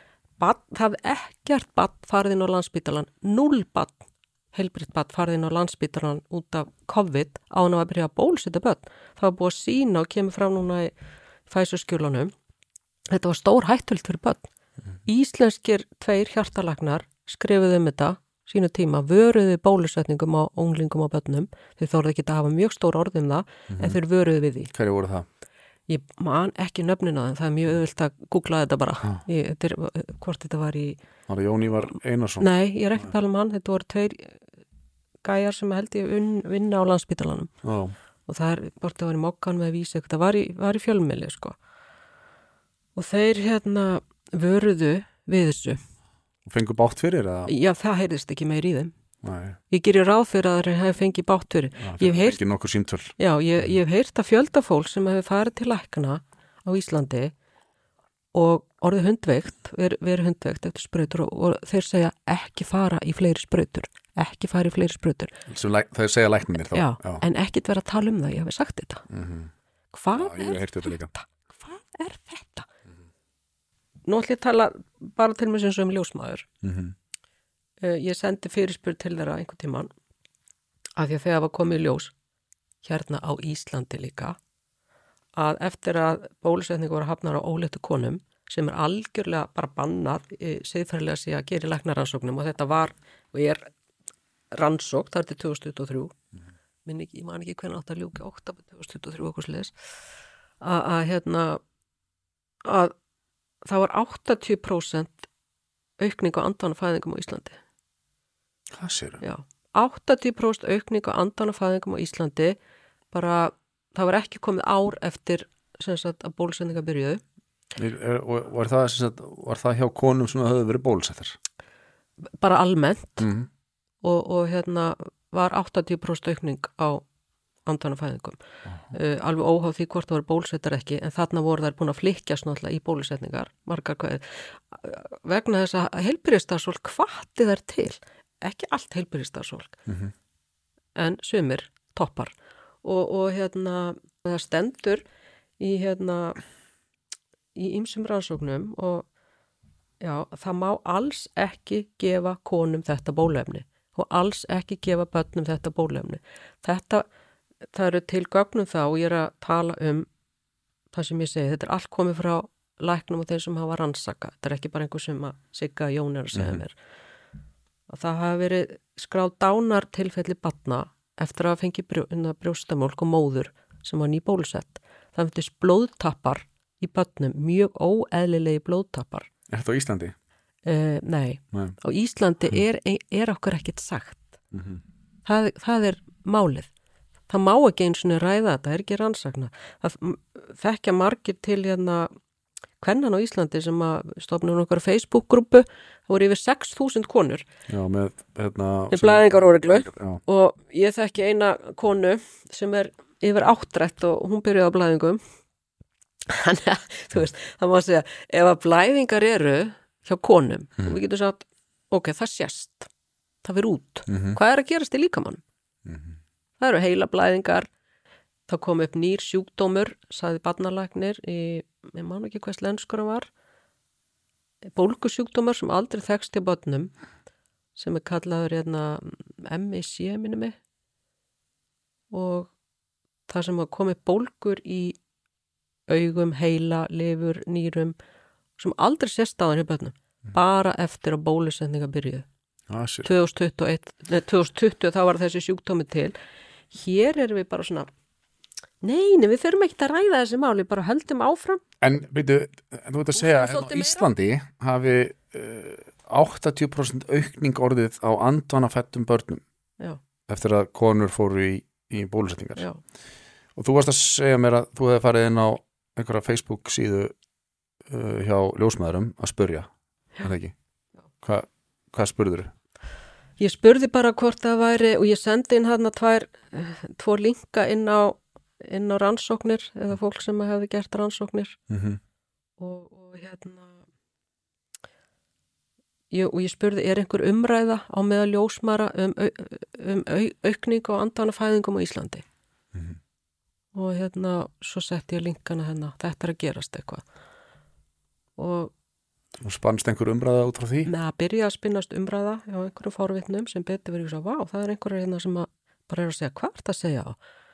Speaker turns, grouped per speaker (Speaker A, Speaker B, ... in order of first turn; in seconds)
Speaker A: 0.4-10.9, 11.5-12.3, 13.1-14.5, 15.1-24.7, 25.9-31.0, 32.4-34.4, 35.2-37.5, 38.3-41.6, 42.9-45.8, 47.5-48.9, 49.7-52.4, 53.2-57.3, 58.3-65.3, 66.7-69.1, 69.9-72.7, 74.0-76.5, 77.8-79.9, 81.0-82.1, 82.8-84.3, 85.4-93.7, 94.5-96.2, 96.8-99.8, 100.6-101.6, 102.6-102.9, 103.6-105.3, 106.0-107.6, 109.2-112.5, 113.1-117.2, 122.4-123.3, 124.0-127.0, 127.7-128.4, 128.9-139.8, 140.9-145.0, 145.6-146.4, 147.6-149.1, 150.0-157.1, 157.7-160.1, 160.9-166.8, 167.9-179.3, 180.7-184.4, 185.2-186.7, 187.3-192.1, 192.8-197.4, 198.9-205.2, 206.2-212.9, 213.4-215.4, 216.6-217.7, 218.5-223.3, 224.7-226.9, 227.8-230.5, 232.1-232.5, 233.3-235.0, 235.9-237.9, 238.6-242.2, 243.0-246.2, 246.7-247.9, 248.8-251.6, 253.1-254.1, 273.4-281.6, 282.6-283.8, 286.1-292.2, 293.7-297.0, 298.4-298.7, 300.8-307.2
Speaker B: 23.7-24.0, 24.7-25.2, 31.3-32.5, 37.6-38.0, 46.5-47.5, 49.2-49.6, 51.8-53.7, 65.5-67.2, 69.1-69.5, 70.1-71.1, 76.6-76.9, 108.8-109.2, 117.8-121.4, 123.2-123.5, 139.9-140.1, 166.3-166.6, 179.5-180.1, 184.5-184.8, 197.7-200.2, 214.1-214.4, 215.8-216.2, 242.7-243.1, 251.8-259.4, 260.3-262.6, 263.6-267.1, 267.9-269.7, 270.2-270.5, 271.2-272.5, 281.7-282.0, 299.4-300.9